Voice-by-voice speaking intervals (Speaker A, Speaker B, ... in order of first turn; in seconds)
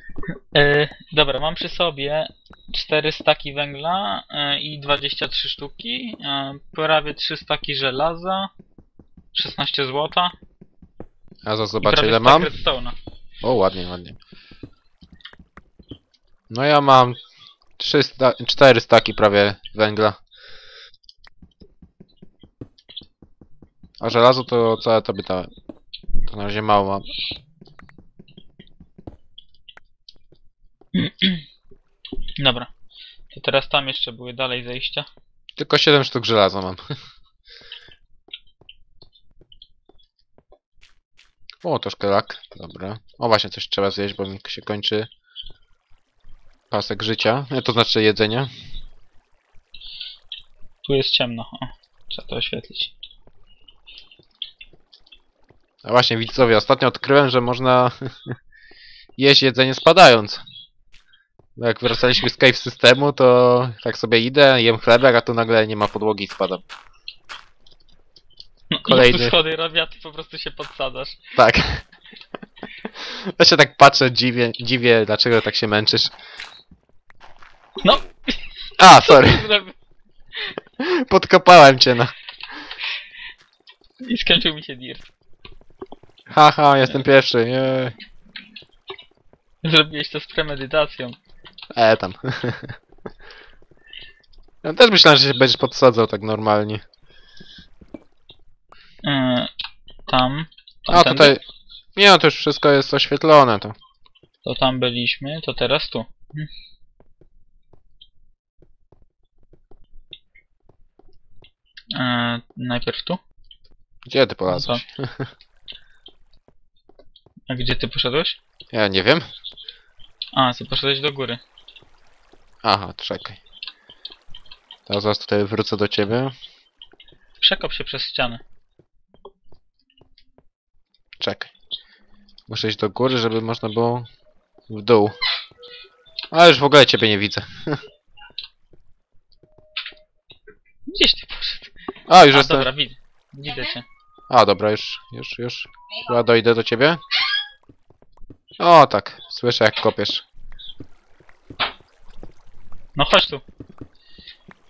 Speaker A: 0.5-8.5, 9.3-10.4, 11.8-12.9, 30.9-31.4, 32.4-32.7, 33.3-35.1, 50.8-52.9, 68.7-71.2, 77.8-79.8, 84.0-85.1, 89.6-91.2, 99.0-99.5, 100.1-101.4, 104.5-106.5, 111.9-113.2, 114.5-114.8, 117.5-118.4, 120.3-121.4, 127.4-128.4, 140.9-141.7, 142.3-143.8, 153.0-153.4
Speaker B: 11.4-12.5, 13.4-14.2, 16.5-17.2, 17.8-20.2, 24.0-25.5, 26.3-27.1, 35.6-36.8, 41.6-45.1, 46.7-48.5, 55.8-58.4, 59.2-60.4, 61.6-66.6, 68.8-69.4, 71.4-71.8, 72.8-76.1, 78.8-79.5, 80.8-82.1, 86.3-88.0, 91.7-92.8, 94.6-96.8, 100.9-101.4, 102.0-103.8, 114.1-115.3, 118.7-119.2, 122.6-123.4, 124.9-126.3, 131.2-131.5, 132.5-134.1, 134.7-135.2, 136.3-137.8, 142.1-142.7, 144.3-147.0, 148.6-150.2